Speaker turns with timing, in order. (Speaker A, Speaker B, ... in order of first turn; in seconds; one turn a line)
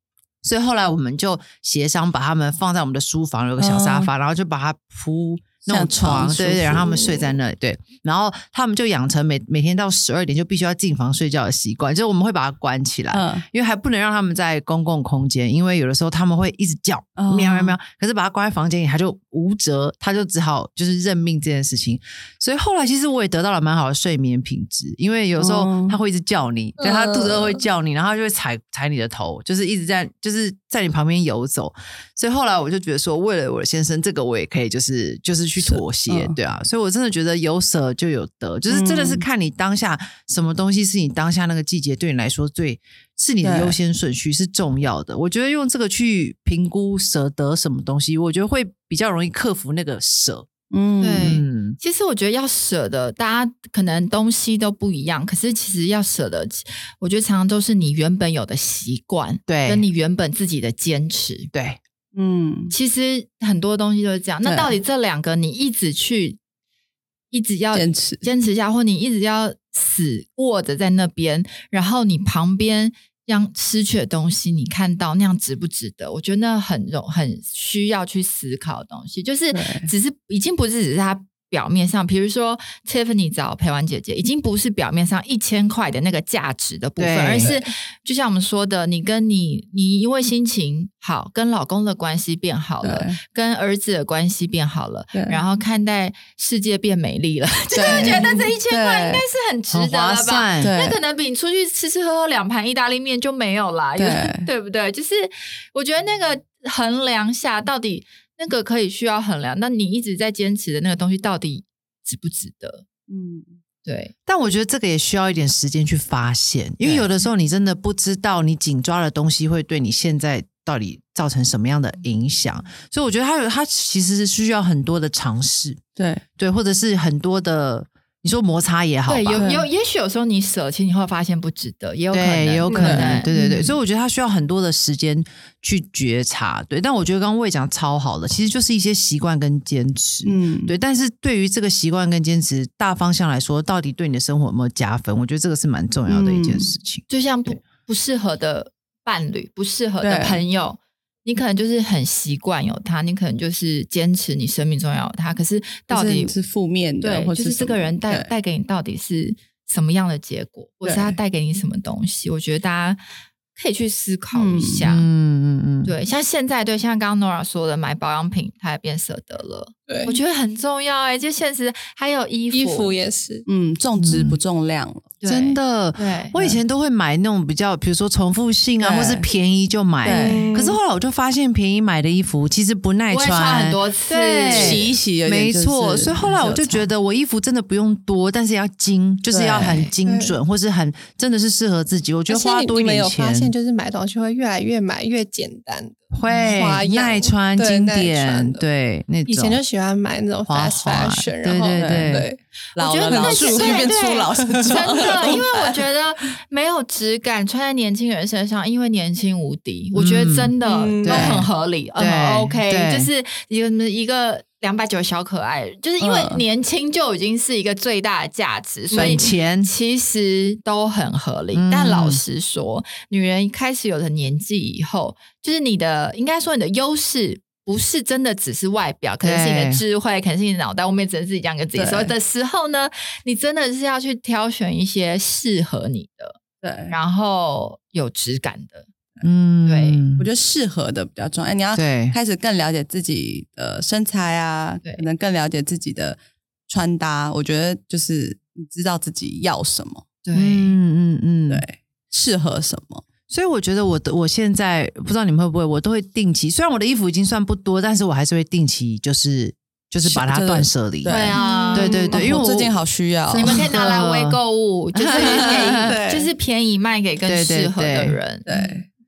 Speaker A: 0.4-50.5
Speaker B: 3.6-4.1
Speaker B: 5.7-7.1
Speaker B: 13.1-13.4
Speaker B: 17.2-17.8
Speaker B: 25.4-26.0
Speaker B: 35.6-36.4
Speaker B: 38.7-39.2
Speaker B: 43.4-43.8
Speaker B: 50.7-51.3
Speaker C: 51.0-61.5
Speaker A: 51.2-51.8
Speaker A: 59.5-59.9
Speaker A: 61.5-61.8
Speaker B: 62.1-62.7
Speaker C: 62.7-66.4
Speaker B: 64.4-64.7
Speaker C: 67.3-112.8
Speaker B: 67.7-68.2
Speaker B: 79.5-79.9
Speaker A: 87.0-87.6
Speaker D: 87.4-87.7
Speaker B: 92.8-93.2
Speaker B: 97.7-99.2
Speaker A: 99.7-100.7
Speaker B: 100.6-101.0
Speaker B: 104.0-104.5
Speaker B: 113.1-113.5
Speaker C: 113.8-114.1
Speaker A: 114.3-125.8
Speaker B: 126.0-126.2
Speaker A: 126.4-129.4
Speaker C: 129.1-133.3
Speaker B: 129.4-129.7
Speaker A: 132.1-147.0
Speaker D: 132.7-132.9
Speaker B: 132.8-133.7
Speaker B: 140.2-140.7
Speaker B: 146.1-146.7
Speaker C: 147.1-156.3
Speaker B: 150.0-150.4
Speaker B: 155.9-158.3
Speaker C: 157.0-163.0
Speaker B: 160.8-161.2
Speaker C: 163.5-165.1
Speaker B: 164.3-164.9
Speaker A: 164.8-165.9
Speaker C: 165.8-172.9
Speaker D: 169.9-170.2
Speaker D: 172.5-173.4
Speaker B: 173.4-175.1
Speaker A: 174.0-174.4
Speaker C: 175.2-176.5
Speaker A: 175.2-193.5
Speaker B: 178.8-179.3
Speaker B: 180.0-180.4
Speaker D: 180.2-180.8
Speaker C: 183.1-184.9
Speaker B: 184.5-186.9
Speaker B: 189.3-189.8
Speaker C: 189.6-189.9
Speaker D: 190.0-190.3
Speaker D: 192.3-198.6
Speaker A: 196.1-199.6
Speaker C: 196.2-196.6
Speaker D: 199.2-202.4
Speaker A: 200.5-202.3
Speaker B: 201.7-205.5
Speaker C: 202.8-238.9
Speaker D: 203.1-205.4
Speaker A: 209.9-213.1
Speaker D: 210.6-211.5
Speaker B: 216.0-216.4
Speaker A: 218.9-219.7
Speaker A: 221.5-222.2
Speaker A: 229.2-229.8
Speaker B: 231.7-232.1
Speaker B: 236.6-236.9
Speaker A: 239.2-240.3
Speaker C: 239.6-240.0
Speaker B: 240.2-250.1
Speaker A: 241.7-242.2
Speaker C: 250.2-250.7
Speaker A: 250.3-251.6
Speaker B: 251.5-253.1
Speaker A: 253.3-262.8
Speaker B: 260.0-263.6
Speaker C: 261.1-262.4
Speaker C: 263.3-268.5
Speaker A: 263.4-264.4
Speaker A: 264.9-266.0
Speaker B: 265.9-266.3
Speaker A: 267.3-268.2
Speaker B: 268.5-268.8